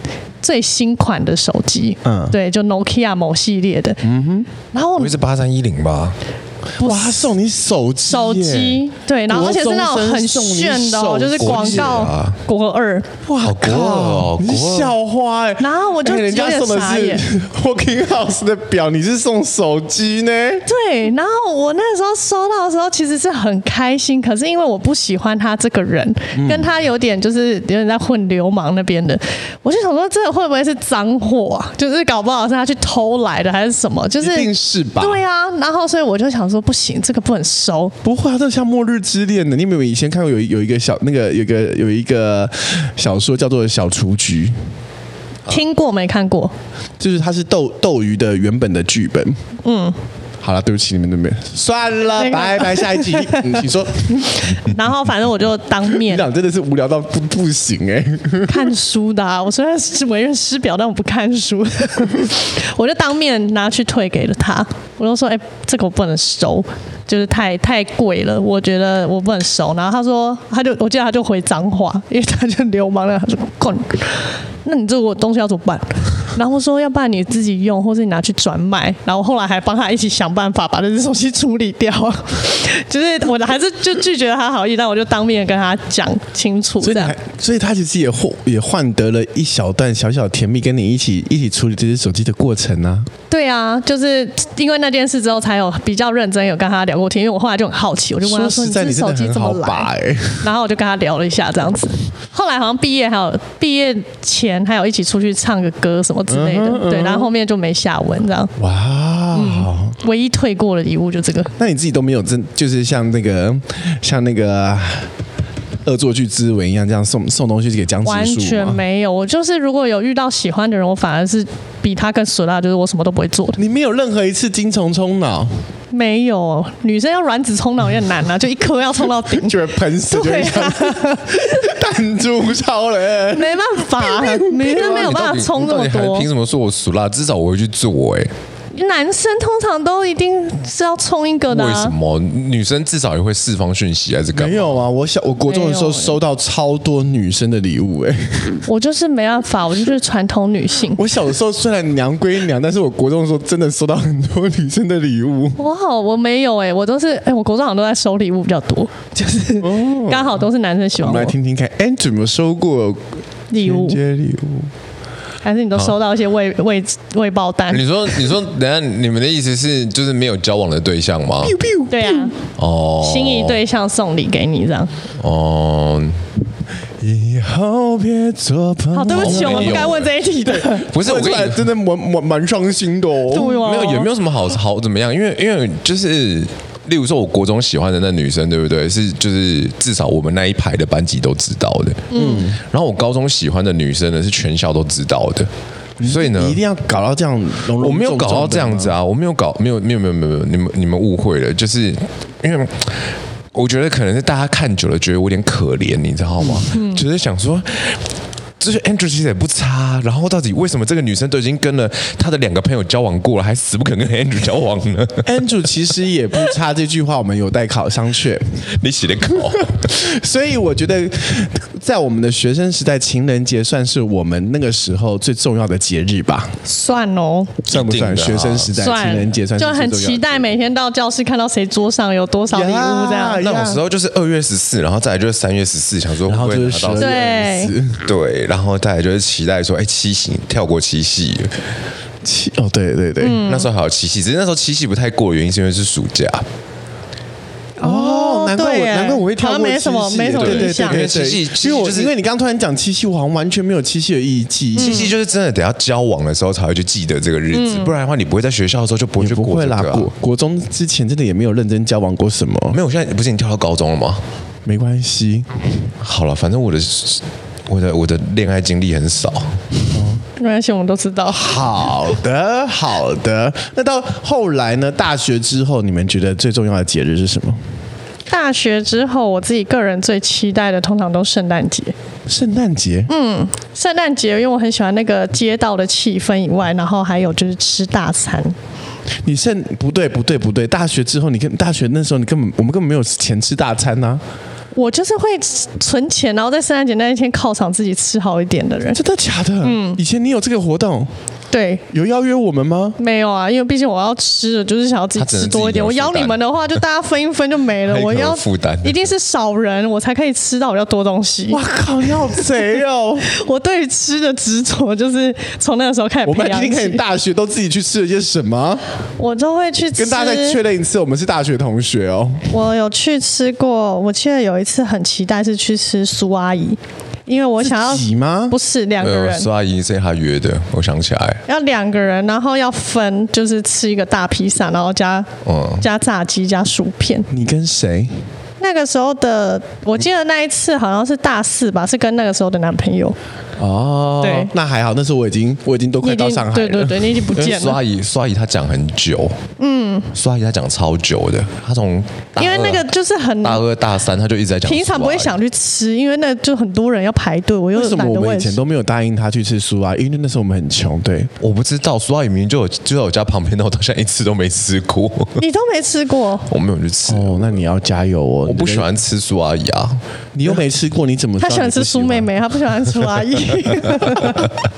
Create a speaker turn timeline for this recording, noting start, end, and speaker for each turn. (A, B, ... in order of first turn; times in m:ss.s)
0:00.4-0:04.0 A
0:02.0-0:02.4 B
0:04.0-0:04.5 B
0:04.7-0:05.1 A
0:05.0-0:06.2 C
0:06.8-0:12.1 B
0:06.8-0:07.3 A
0:08.0-0:13.1 A
0:11.4-0:12.4 C
0:13.3-0:20.6 B
0:13.4-0:14.9 C
0:15.6-0:17.2 A
0:20.6-0:37.9 A
0:26.3-0:26.7 B
0:34.2-0:35.2 B
0:38.0-0:44.6 B
0:45.5-0:46.5 A
0:47.0-0:49.4 B
0:49.6-0:50.0 A
0:50.4-0:54.6 B
0:52.1-0:56.2 A
0:55.9-0:58.7 B
0:58.5-1:27.1 A
1:26.8-1:33.1 B
1:33.3-1:39.9 A
1:38.2-1:40.4 B
1:40.4-1:48.5 A
1:46.3-1:47.3 B
1:48.6-1:50.0 B
1:49.3-1:51.5 A
1:51.6-1:55.1 B
1:55.8-1:58.8 B
1:58.0-2:03.6 A
2:03.6-2:05.5 B
2:05.9-2:11.7 A
2:09.2-2:15.2 B
2:13.3-2:16.3 A
2:14.6-2:18.3 C
2:18.7-2:21.9 A
2:21.5-2:24.8 C
2:24.3-2:28.6 B
2:25.4-2:26.2 A
2:28.7-2:31.0 A
2:31.0-2:35.6 B
2:35.6-2:41.3 A
2:39.6-2:40.4 B
2:41.0-2:44.7 B
2:43.5-2:44.0 A
2:45.4-2:48.0 A
2:47.7-2:51.6 C
2:51.4-2:52.3 B
2:51.9-2:52.3 A
2:52.6-2:53.6 C
2:53.0-2:54.9 A
2:55.2-2:56.2 C
2:57.0-3:03.6 B
2:58.9-3:00.9 A
2:59.1-3:00.1 C
3:00.9-3:01.7 C
3:03.3-3:04.1 A
3:03.5-3:15.5 C
3:12.1-3:12.4 A
3:12.1-3:12.6 B
3:16.0-3:19.0 B
3:16.0-3:16.6 C
3:17.8-3:28.0 C
3:26.7-3:27.0 A
3:28.6-3:35.3 C
3:35.2-3:38.6 B
3:38.7-3:39.8 C
3:39.6-3:46.5 B
3:46.6-3:47.6 A
3:47.6-3:50.5 B
3:47.7-3:48.8 C
3:48.8-3:53.4 A
3:52.5-3:53.8 B
3:53.4-3:57.2 C
3:56.2-3:58.0 B
3:57.0-3:57.7 A
3:58.0-4:01.6 C
4:02.2-4:03.4 B
4:03.2-4:03.7 A
4:03.4-4:06.4 C
4:07.8-4:11.0 A
4:07.8-4:15.1 B
4:10.4-4:12.1 C
4:14.8-4:20.1 C
4:14.8-4:15.1 A
4:17.5-4:17.9 A
4:19.2-4:22.8 B
4:22.7-4:24.2 C
4:24.6-4:25.6 B
4:26.0-4:29.6 C
4:29.9-4:30.2 B
4:30.4-4:31.5 A
4:31.3-4:37.6 B
4:38.3-4:41.9 A
4:42.3-4:43.1 B
4:43.1-4:48.5 A
4:49.2-4:54.2 B
4:54.7-4:59.0 A
4:58.9-5:01.1 B
4:59.6-5:00.0 A
5:01.5-5:01.8 A
5:01.9-5:03.0 B
5:03.0-5:11.6 A
5:05.1-5:06.8 C
5:07.8-5:09.0 C
5:11.5-5:13.3 B
5:13.3-5:17.0 A
5:16.2-5:18.8 B
5:19.2-5:20.6 A
5:19.9-5:22.5 B
5:22.5-5:29.5 A
5:27.6-5:28.6 B
5:29.0-5:31.4 C
5:31.5-5:35.3 A
5:35.4-5:35.8 C
5:35.8-5:37.3 A
5:37.3-5:38.1 B
5:38.6-5:43.2 A
5:43.6-5:47.3 B
5:44.2-5:44.5 A
5:46.0-5:47.8 A
5:47.3-5:49.4 C
5:49.6-5:50.1 A
5:50.1-5:52.9 C
5:52.4-5:53.6 A
5:53.4-5:55.4 C
5:54.6-5:58.6 A
5:57.7-6:01.3 B
6:01.4-6:05.4 C
6:05.4-6:06.5 A
6:06.5-6:07.4 C
6:07.1-6:08.9 B
6:08.4-6:10.0 C
6:10.3-6:12.3 B
6:11.4-6:14.5 A